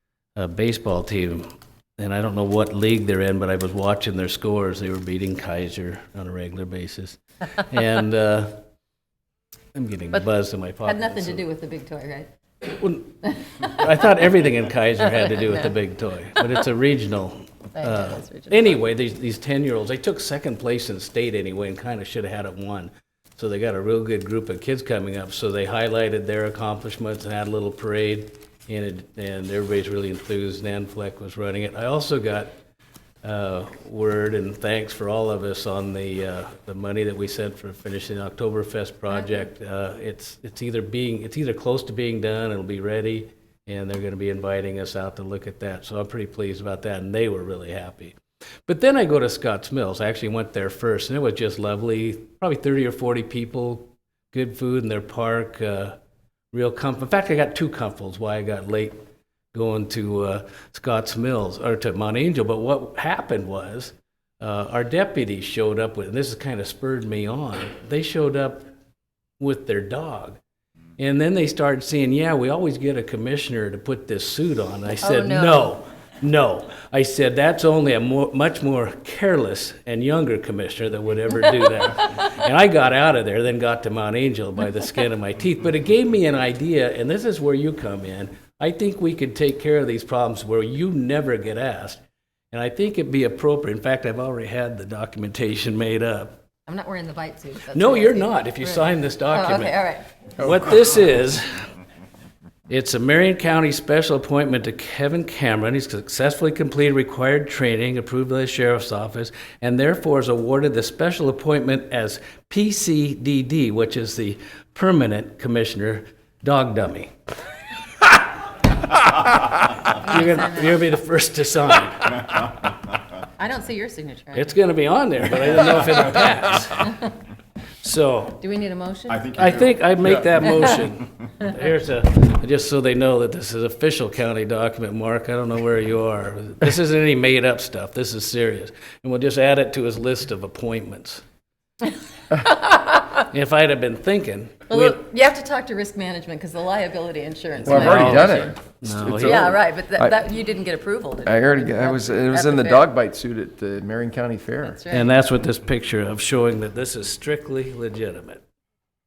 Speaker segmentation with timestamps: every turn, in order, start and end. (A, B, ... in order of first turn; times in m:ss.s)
0:00.3-0:08.6 A
0:09.7-0:11.4 A
0:10.8-0:12.3 B
0:12.6-0:32.5 A
0:15.1-0:15.7 B
0:17.7-0:18.8 B
0:33.2-0:56.0 A
0:39.1-0:39.4 B
0:56.5-0:59.0 A
0:59.5-1:08.7 A
1:09.4-1:10.4 A
1:11.0-1:36.4 A
1:15.0-1:15.7 B
1:36.7-1:40.1 B
1:37.7-1:39.8 A
1:40.4-1:41.7 A
1:42.7-1:57.1 A
1:58.8-2:02.5 A
2:00.0-2:00.8 B
2:03.4-2:04.6 B
2:04.3-2:07.1 A
2:07.8-2:08.4 A
2:08.4-2:09.5 B
2:09.3-2:21.2 A
2:22.8-2:25.0 A
2:24.7-2:28.6 B
2:27.6-2:29.5 A
2:27.6-2:30.2 C
2:29.1-2:32.9 B
2:31.2-2:34.8 C
2:34.6-2:35.2 B
2:34.9-2:38.4 A